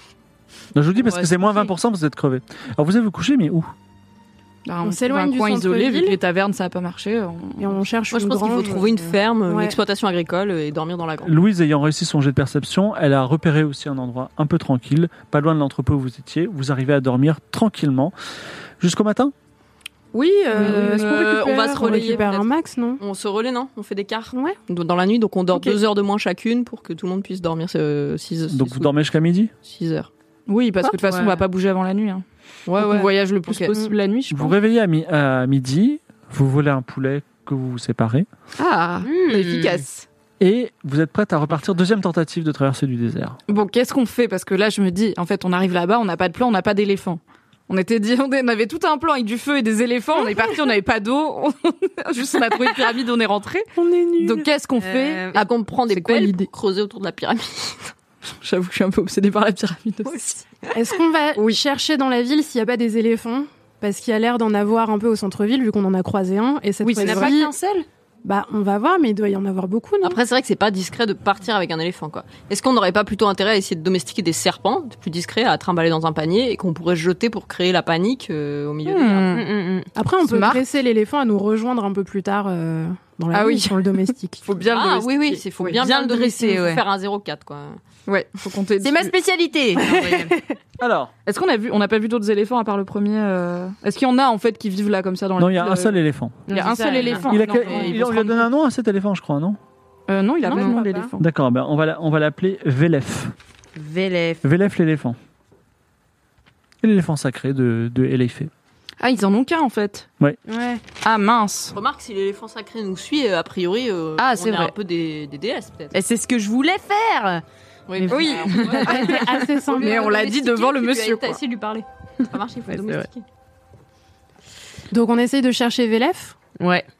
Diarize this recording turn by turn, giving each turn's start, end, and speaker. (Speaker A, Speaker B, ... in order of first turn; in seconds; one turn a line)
Speaker A: 0.7-3.7
Speaker B: 4.7-7.8
Speaker C: 4.8-6.2
Speaker C: 7.6-9.8
Speaker D: 8.1-11.3
Speaker A: 11.2-18.1
Speaker A: 18.8-19.3
Speaker B: 20.1-22.3
Speaker C: 20.5-23.0
Speaker D: 20.6-22.5
Speaker D: 23.0-28.9
Speaker A: 28.5-29.5
Speaker D: 29.6-30.1
Speaker B: 30.5-34.5
Speaker E: 31.0-31.4
Speaker D: 32.7-33.1
Speaker A: 34.3-38.3
Speaker B: 38.6-40.0
Speaker E: 39.0-39.8
Speaker A: 40.4-43.4
Speaker B: 43.5-56.5
Speaker C: 53.8-54.5
Speaker E: 54.8-55.4
Speaker D: 55.3-57.9
Speaker B: 58.4-60.4
Speaker D: 60.1-60.7
Speaker C: 60.7-67.5
Speaker B: 61.4-61.6
Speaker B: 66.8-67.7
Speaker E: 66.9-67.8
Speaker C: 68.2-70.2
Speaker D: 70.0-79.4
Speaker B: 78.8-79.5
Speaker E: 79.3-79.9
Speaker C: 80.0-84.5
Speaker B: 80.2-80.6
Speaker B: 83.3-85.8
Speaker D: 84.7-87.8
Speaker E: 85.6-86.8
Speaker B: 88.1-89.2
Speaker E: 88.8-90.4
Speaker A: 90.8-91.1
Speaker B: 91.2-98.3
Speaker A: 95.4-96.4
Speaker E: 96.5-98.4
Speaker A: 97.2-99.6
Speaker B: 100.1-101.2
Speaker C: 100.5-101.0
Speaker E: 100.5-101.1
Speaker A: 101.2-103.3
Speaker E: 103.8-104.4
Speaker A: 104.4-105.2
Speaker A: 106.8-108.5
Speaker B: 109.0-110.1
Speaker E: 110.5-110.8
Speaker B: 111.0-111.8
Speaker D: 111.7-115.9
Speaker E: 114.2-114.7
Speaker E: 115.9-119.4
Speaker D: 117.9-123.2
Speaker B: 118.1-121.4
Speaker C: 118.8-120.2
Speaker E: 122.7-123.1
Speaker C: 124.9-126.4
Speaker E: 126.6-126.8